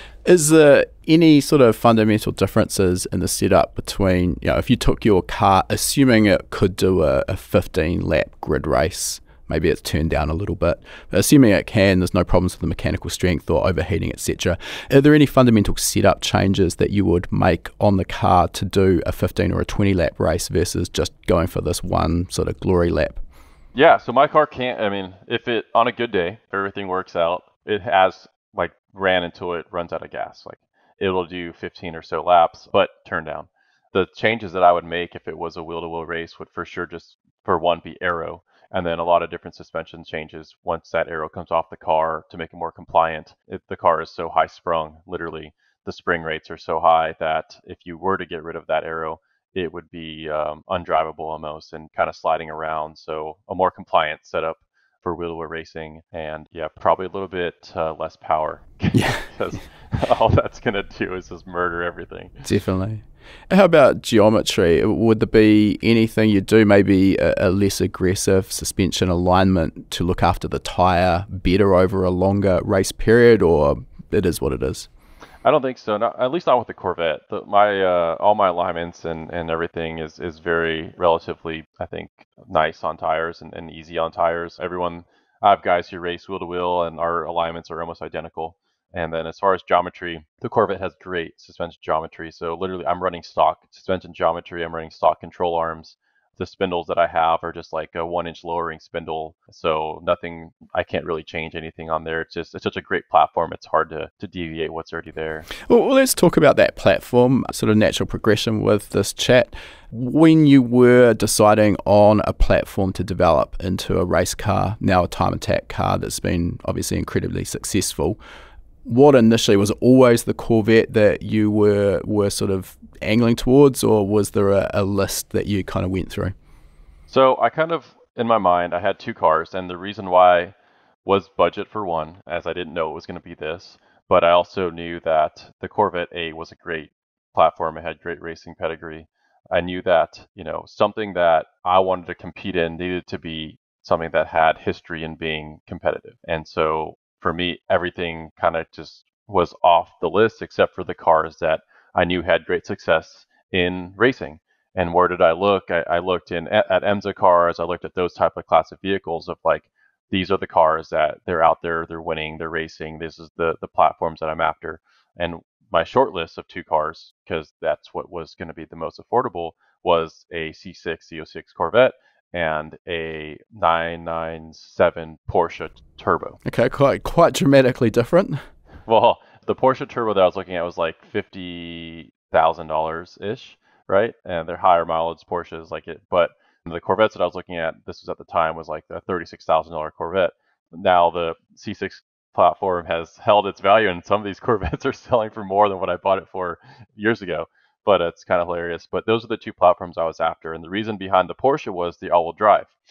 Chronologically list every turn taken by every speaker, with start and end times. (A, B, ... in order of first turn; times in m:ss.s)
0:00.2-0:23.2 A
0:23.7-1:02.4 B
0:58.9-0:59.2 A
1:02.4-1:14.9 A
1:15.4-1:45.5 B
1:45.6-1:58.2 A
1:58.8-2:06.3 A
2:07.1-2:56.4 B
2:56.4-2:58.4 A
2:58.9-3:22.7 B